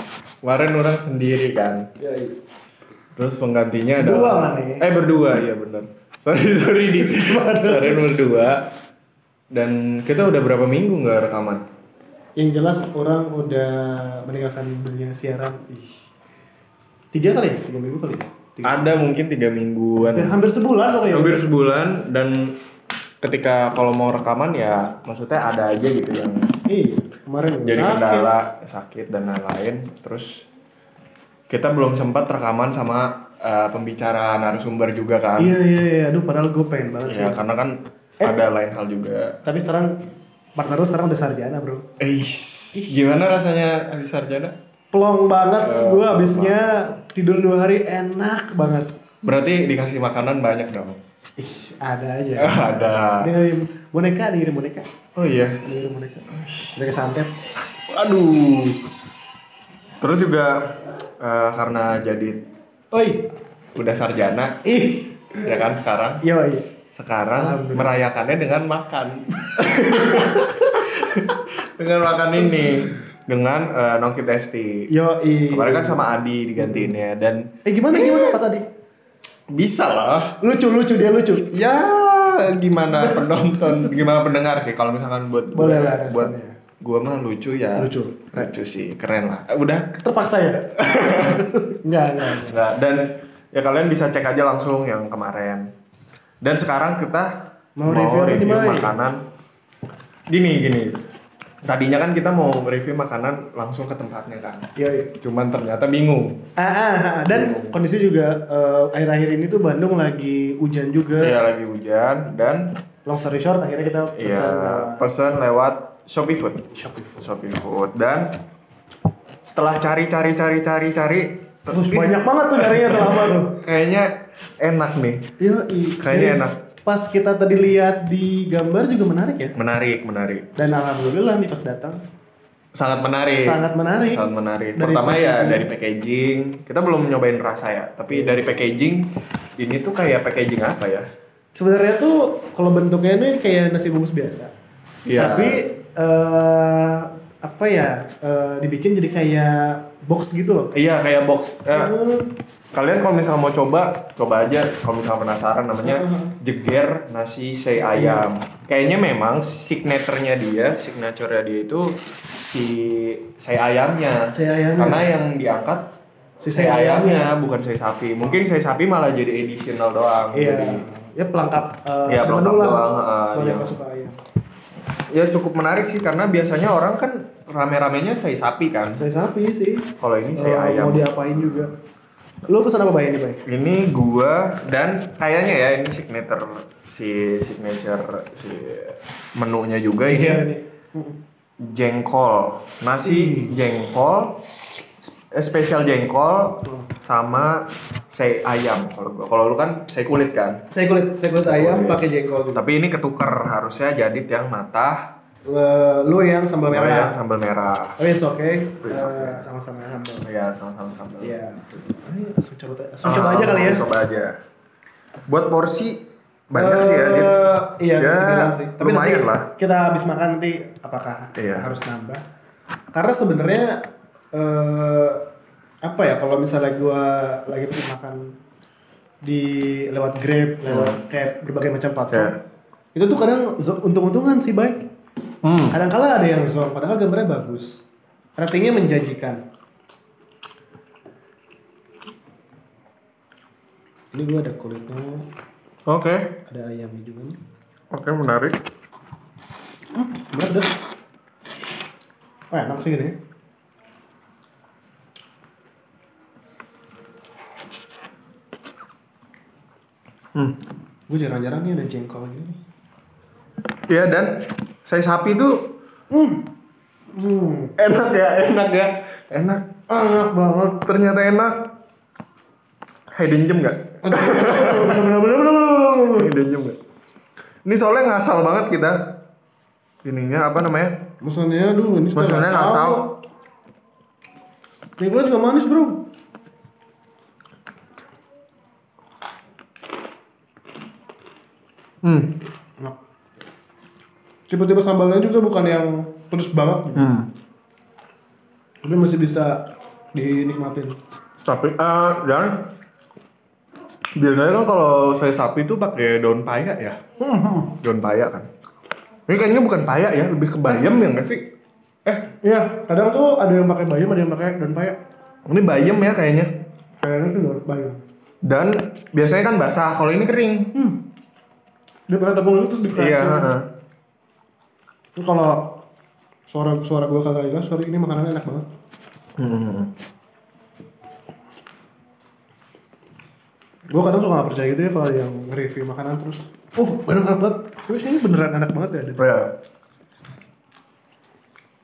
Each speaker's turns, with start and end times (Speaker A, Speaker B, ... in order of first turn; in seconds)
Speaker A: 0.4-1.9, 3.2-8.7, 9.5-11.6, 18.6-20.4, 21.1-22.6, 23.2-26.5, 27.6-30.5, 31.5-35.5, 37.1-39.4, 42.0-44.5, 45.6-46.8, 49.2-51.0, 52.4-53.3, 55.1-55.6, 56.4-56.7, 57.7-58.8, 60.0-62.4, 63.7-64.6, 65.4-66.2, 66.9-74.9, 75.5-78.4, 79.5-80.4, 81.5-90.0, 90.8-91.5, 92.4-95.7, 96.4-99.2, 100.3-101.0, 101.6-104.7, 105.2-106.4, 107.3-107.7, 111.2-112.7, 114.2-118.4, 119.4-125.2, 126.0-126.6, 129.6-130.6, 132.8-141.1, 145.0-145.6, 150.7-151.9, 152.7-165.9, 166.5-170.8, 172.1-173.7, 175.1-179.0, 180.0-181.7, 183.4-190.4, 191.6-194.4, 195.3-200.6, 201.4-202.0, 202.5-205.1, 206.7-208.0, 208.8-209.4, 210.2-211.3, 213.0-214.4, 215.3-219.5, 221.3-221.7, 230.7-231.0, 232.1-232.3, 235.4-235.8, 245.8-246.4, 247.9-248.6, 260.3-260.6, 263.9-265.7, 267.8-269.7, 270.8-271.7, 273.1-275.1, 276.1-276.8, 277.6-279.2, 280.0-281.0, 282.1-283.1, 292.0-292.4, 296.9-297.3, 301.4-302.7, 304.1-307.0, 307.8-308.5, 309.3-311.5, 315.5-316.5, 318.4-320.7, 322.9-323.7, 329.4-329.9, 339.2-339.6
Speaker B: 2.0-2.3, 4.0-4.8, 7.0-8.1, 12.4-15.8, 17.1-18.9, 20.0-21.5, 26.7-28.3, 35.4-37.5, 38.2-38.5, 39.4-40.0, 40.5-41.8, 44.9-48.9, 51.4-54.9, 55.6-57.3, 62.9-63.2, 64.6-65.5, 66.2-66.7, 67.3-67.9, 69.7-70.4, 74.9-76.9, 77.6-78.6, 80.4-81.5, 83.0-84.0, 85.5-86.6, 87.8-88.5, 90.0-92.6, 97.8-98.9, 104.8-105.1, 106.6-111.4, 113.0-115.0, 116.7-117.2, 121.7-123.6, 125.4-129.5, 130.6-132.0, 133.4-134.2, 134.8-135.7, 138.1-138.5, 141.5-144.5, 145.2-150.7, 151.7-152.3, 155.8-156.3, 157.9-158.2, 164.3-165.1, 166.4-167.3, 170.3-174.2, 179.0-181.7, 182.5-183.4, 190.1-191.2, 193.0-193.5, 200.7-202.6, 205.5-207.1, 208.0-210.2, 211.2-213.8, 216.5-222.2, 222.9-225.2, 225.8-228.3, 229.2-232.3, 232.9-234.8, 235.7-237.8, 238.4-239.4, 244.1-245.2, 246.5-247.4, 249.9-250.7, 252.5-253.2, 261.1-262.6, 266.1-266.5, 267.1-267.7, 269.9-270.8, 274.0-276.3, 281.2-283.1, 285.0-286.0, 294.5-297.1, 298.8-300.9, 307.2-307.7, 312.4-315.0, 317.0-318.0, 320.7-321.0, 322.1-323.5, 325.1-325.8, 326.5-328.7, 333.9-339.2